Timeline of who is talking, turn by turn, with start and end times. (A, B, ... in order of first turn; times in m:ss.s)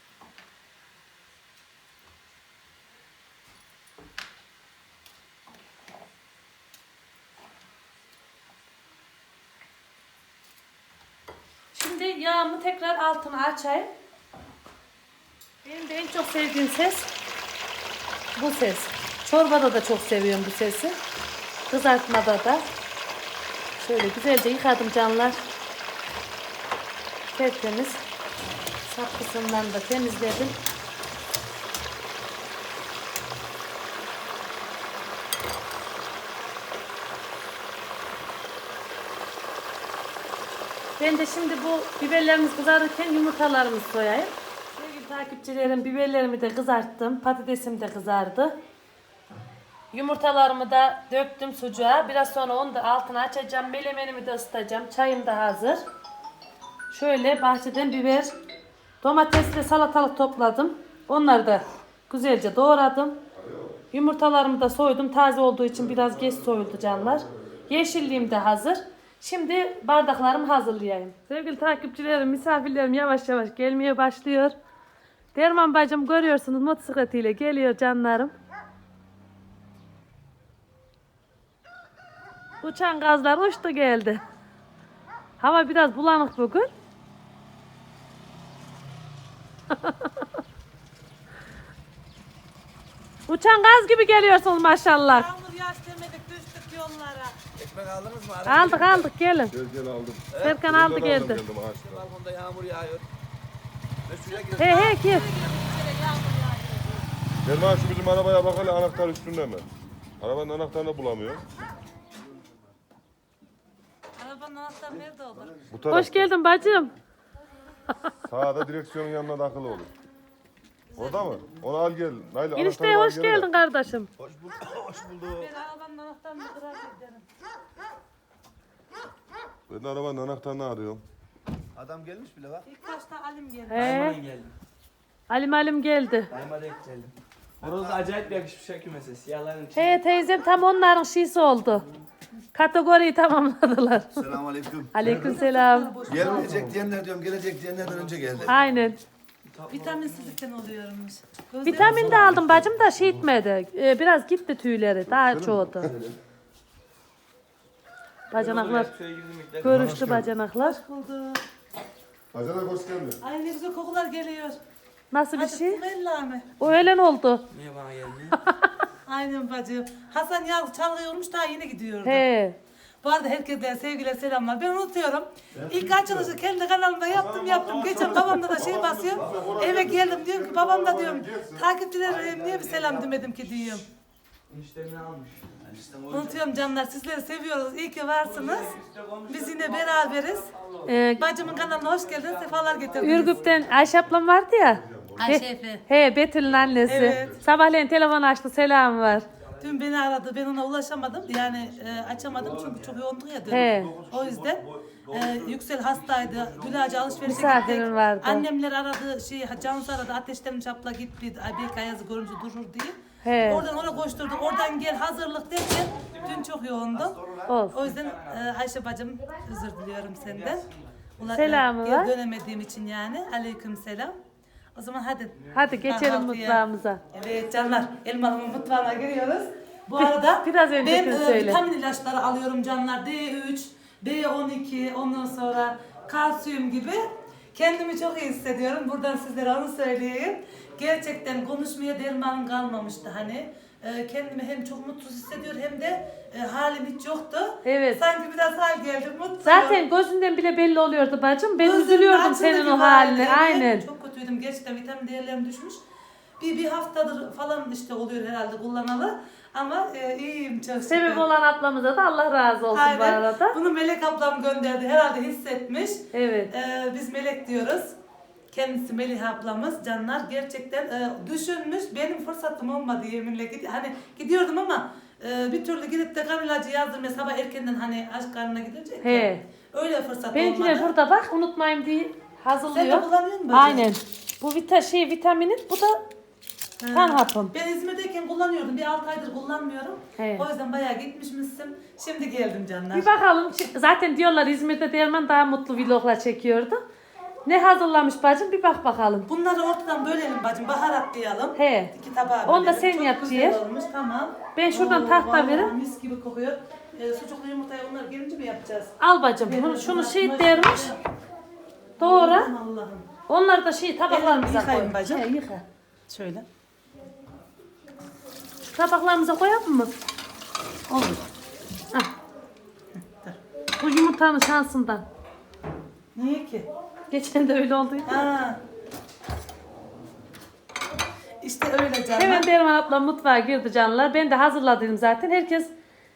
0:11.7-0:13.9 A
0:15.6-0:17.1 A
0:18.3-0:21.0 A
0:21.7-0:22.6 A
0:23.8-0:25.4 A
0:27.3-0:28.0 A
0:28.8-0:30.6 A
0:41.0-0:48.6 A
0:49.9-0:55.8 A
0:56.9-0:58.3 A
0:59.0-1:03.2 A
1:03.4-1:03.7 B
1:03.9-1:14.5 A
1:05.8-1:07.0 B
1:15.3-1:18.3 A
1:22.6-1:24.2 A
1:25.4-1:26.7 A
1:29.7-1:30.2 A
1:33.3-1:35.3 A
1:35.0-1:37.4 C
1:37.6-1:39.1 D
1:38.4-1:39.5 A
1:39.5-1:42.0 B
1:40.3-1:40.7 D
1:40.4-1:41.4 A
1:41.7-1:43.1 D
1:44.0-1:44.9 D
1:44.2-1:47.0 C
1:44.6-1:45.2 A
1:47.4-1:49.6 B
1:50.2-1:51.4 B
1:54.2-1:55.6 C
1:54.9-1:56.1 D
1:55.7-1:56.3 B
1:55.9-1:56.9 A
1:58.2-1:59.9 B
2:00.9-2:01.4 C
2:01.0-2:03.5 B
2:02.5-2:04.1 A
2:04.2-2:05.5 D
2:05.3-2:07.2 C
2:09.7-2:11.0 B
2:11.7-2:12.7 D
2:12.6-2:13.9 C
2:13.7-2:14.2 A
2:13.7-2:14.5 E
2:15.3-2:16.3 A
2:16.3-2:20.0 E
2:17.6-2:18.0 D
2:19.7-2:21.8 A
2:22.5-2:24.2 A
2:24.2-2:25.2 D
2:24.9-2:25.9 A
2:25.0-2:25.4 B
2:25.1-2:26.6 C
2:26.1-2:28.6 D
2:26.1-2:26.8 B
2:27.8-2:28.7 E
2:28.5-2:29.0 A
2:29.4-2:30.4 E
2:29.7-2:32.2 C
2:31.6-2:35.9 A
2:31.7-2:33.2 B
2:35.1-2:36.1 B
2:38.3-2:38.9 A
2:38.3-2:40.1 E
2:39.6-2:40.8 A
2:39.6-2:40.3 B
2:40.6-2:41.4 C
2:42.3-2:43.2 B
2:43.2-2:44.6 C
2:45.1-2:45.8 A
2:45.3-2:46.5 C
2:46.6-2:47.4 A
2:47.5-2:48.4 E
2:49.0-2:52.3 C
2:52.0-2:52.6 A
2:53.0-3:03.8 C
2:55.5-2:56.2 D
2:57.1-3:01.6 B
2:59.2-3:00.0 D
3:02.0-3:03.1 D
3:04.5-3:05.6 E
3:05.6-3:06.4 D
3:06.1-3:08.8 C
3:08.2-3:14.0 E
3:09.3-3:10.5 C
3:10.8-3:11.3 A
3:11.2-3:13.4 C
3:13.0-3:19.2 A
3:14.8-3:15.3 B
3:15.2-3:15.8 C
3:16.5-3:17.4 B
3:16.8-3:17.4 C
3:19.2-3:19.8 E
3:19.6-3:40.6 C
3:22.4-3:22.9 D
3:23.5-3:24.0 A
3:23.5-3:27.7 D
3:27.2-3:28.5 A
3:33.2-3:33.6 A
3:33.6-3:34.0 E
3:36.0-3:36.4 E
3:36.9-3:37.6 D
3:37.5-3:37.8 A
3:37.8-3:38.5 E
3:40.2-3:41.3 E
3:41.2-3:44.1 C
3:41.3-3:42.1 A
3:44.7-4:09.8 C
3:45.5-3:47.0 A
3:50.0-3:51.6 A
4:07.6-4:08.0 A
4:09.4-4:13.8 A
4:11.6-4:15.8 C
4:16.4-4:21.2 C
4:20.9-4:23.6 A
4:22.7-4:27.9 C
4:26.1-4:26.5 A
4:28.5-4:40.9 C
4:39.0-4:39.4 A
4:40.3-4:46.0 A
4:42.7-4:43.9 C
4:46.8-4:53.1 C
4:46.9-4:47.5 A
4:50.2-4:50.5 A
4:52.9-4:56.8 A
4:57.4-4:59.2 A
4:59.3-5:08.9 C
5:01.6-5:01.9 A
5:02.4-5:03.6 A
5:04.5-5:05.7 A
5:09.0-5:10.9 A
5:09.4-5:11.0 C
5:12.0-5:12.5 A
5:12.0-5:13.1 C
5:13.3-5:15.6 A
5:14.1-5:15.3 C
5:16.1-5:16.4 C
5:18.7-5:19.9 A
5:20.9-5:21.2 C
5:23.1-5:23.4 C
5:23.8-5:25.0 A
5:26.1-5:26.7 C
5:27.1-5:28.2 A
5:28.0-5:28.6 C
5:31.4-5:32.5 C
5:32.1-5:35.7 A